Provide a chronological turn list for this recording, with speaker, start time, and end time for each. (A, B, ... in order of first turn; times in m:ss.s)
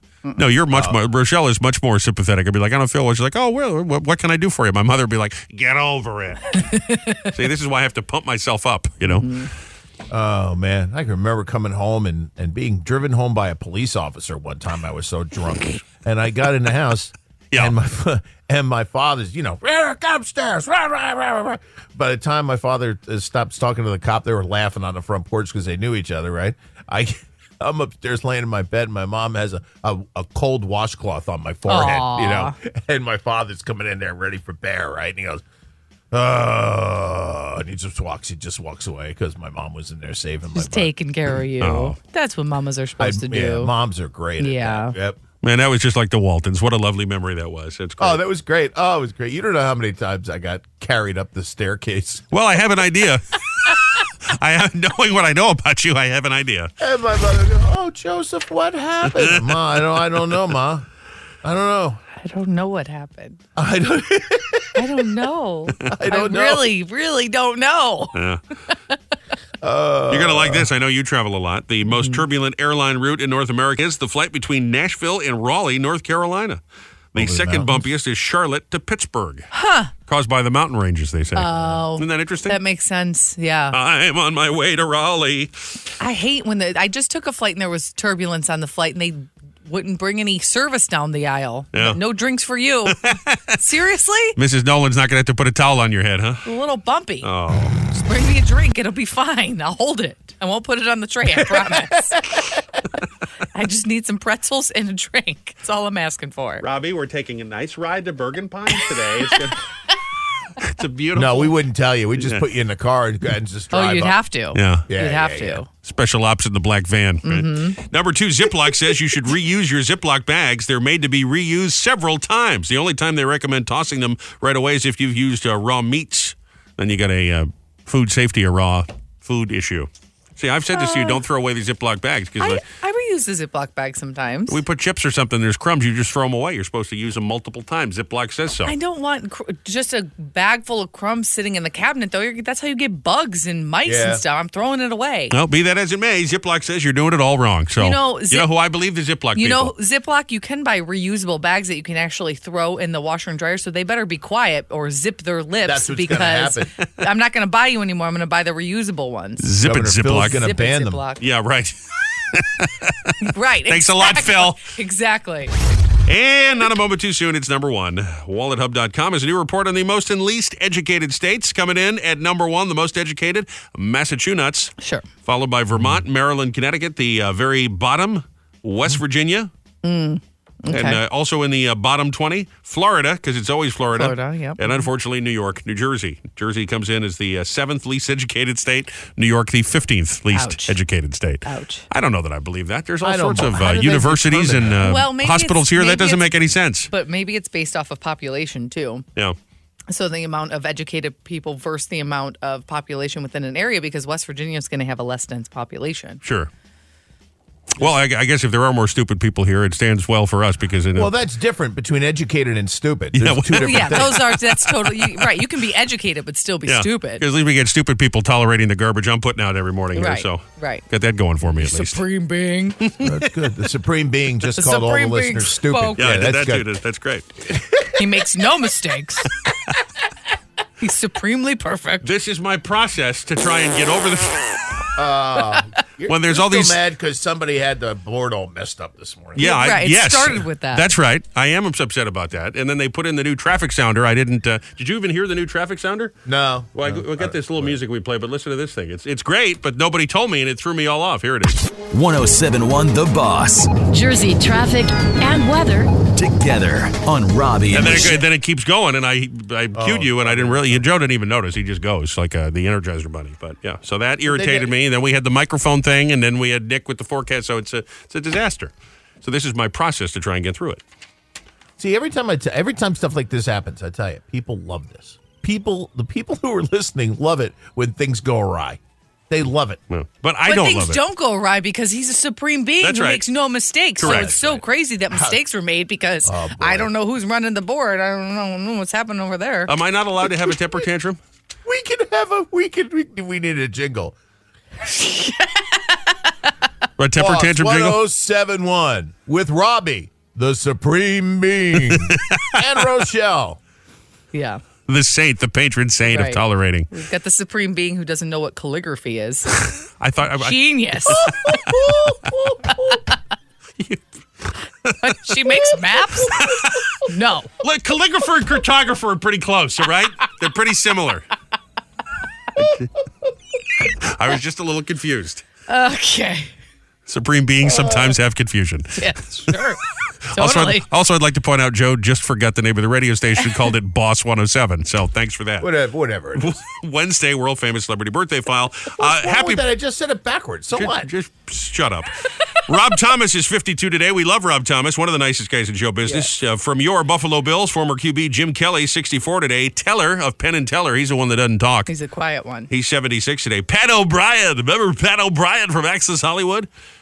0:00.4-0:06.6 A
0:00.7-0:01.0 B
0:06.6-0:07.3 C
0:07.3-0:09.4 A
0:09.0-0:09.5 C
0:10.1-0:35.4 B
0:31.7-0:32.5 C
0:36.1-0:40.9 B
0:40.5-0:43.7 C
0:41.6-0:42.0 A
0:43.0-0:45.2 B
0:44.4-0:44.9 C
0:45.4-0:48.2 A
0:48.0-0:52.2 B
0:52.3-0:56.7 A
0:56.8-1:00.8 B
0:59.0-1:00.0 A
1:01.4-1:02.0 B
1:02.2-1:03.4 C
1:03.6-1:04.8 B
1:04.8-1:08.2 C
1:05.9-1:06.7 B
1:08.1-1:08.4 A
1:09.6-1:10.7 B
1:10.1-1:16.6 A
1:11.8-1:12.2 C
1:17.1-1:19.5 A
1:17.1-1:17.9 B
1:19.5-1:19.9 C
1:20.1-1:22.6 A
1:21.3-1:23.8 C
1:23.7-1:25.5 A
1:26.0-1:33.0 C
1:33.0-1:33.6 A
1:33.6-1:34.4 C
1:34.4-1:36.4 A
1:36.4-1:37.3 C
1:37.2-1:37.8 A
1:37.9-1:42.5 C
1:43.5-1:46.6 C
1:46.6-1:49.6 A
1:50.6-1:51.5 A
1:51.1-1:54.2 B
1:52.2-1:52.4 A
1:53.7-1:55.7 C
1:54.5-1:54.9 A
1:54.9-1:55.6 B
1:55.8-2:12.6 A
1:57.2-1:57.8 C
2:10.7-2:11.2 C
2:12.4-2:14.6 C
2:14.5-2:18.7 A
2:18.6-2:25.3 C
2:23.8-2:24.2 B
2:25.3-2:29.7 A
2:27.8-2:28.5 C
2:29.4-2:39.5 C
2:35.6-2:36.7 B
2:39.4-2:40.4 A
2:39.6-2:41.0 B
2:40.2-2:41.2 C
2:41.2-2:41.8 A
2:42.3-2:43.1 A
2:43.2-2:45.5 C
2:43.7-2:44.6 A
2:46.1-2:54.7 A
2:54.8-2:55.0 C
2:55.2-2:59.5 A
2:55.8-2:56.0 B
2:59.8-3:01.0 C
3:00.7-3:16.9 A
3:03.9-3:04.9 C
3:10.3-3:10.8 C
3:11.4-3:11.8 C
3:13.0-3:14.8 B
3:14.8-3:16.3 C
3:16.9-3:19.0 C
3:19.9-3:26.2 C
3:26.2-3:26.5 A
3:27.8-3:31.1 A
3:30.9-3:34.2 B
3:33.1-3:35.4 A
3:33.6-3:37.2 C
3:36.6-3:42.0 A
3:39.9-3:40.8 C
3:41.4-3:42.9 C
3:43.0-3:46.6 B
3:44.5-3:46.1 C
3:46.0-3:47.2 A
3:47.5-3:47.9 B
3:48.0-3:49.3 C
3:50.8-3:52.1 C
3:52.0-3:54.4 A
3:55.0-3:59.5 B
3:56.1-3:56.8 A
3:59.4-4:06.1 A
3:59.4-4:00.9 C
4:06.2-4:07.8 B
4:06.7-4:11.6 A
4:12.0-4:13.7 D
4:13.9-4:15.9 E
4:16.2-4:18.2 D
4:17.7-4:30.8 A
4:19.7-4:20.8 B
4:24.2-4:24.7 B
4:31.8-4:38.8 B
4:39.3-4:39.8 B
4:39.9-4:41.0 A
4:40.4-4:49.7 C
4:42.8-4:43.2 A
4:44.0-4:44.6 A
4:44.0-4:44.3 B
4:45.1-4:45.4 B
4:46.2-4:46.9 B
4:49.7-4:51.2 A
4:51.6-4:54.2 B
4:54.8-4:55.8 C
4:57.0-4:58.0 A
4:57.2-5:03.6 B
5:01.8-5:02.6 A
5:04.3-5:04.6 C
5:04.9-5:06.9 A
5:06.1-5:09.6 C
5:09.7-5:11.4 A
5:10.4-5:11.6 C
5:11.2-5:12.9 B
5:13.8-5:15.6 A
5:15.0-5:16.4 C
5:16.3-5:16.8 A
5:17.1-5:17.5 C
5:17.6-5:21.3 A
5:22.6-5:22.9 A
5:24.0-5:25.4 A
5:25.7-5:26.5 C
5:27.1-5:29.3 A
5:29.0-5:29.8 C
5:30.3-5:30.8 C
5:30.3-5:35.7 A
5:35.6-5:36.6 B
5:36.4-5:39.7 A
5:39.0-5:41.1 B
5:40.8-5:51.9 A
5:51.9-5:52.7 C
5:52.7-5:56.7 A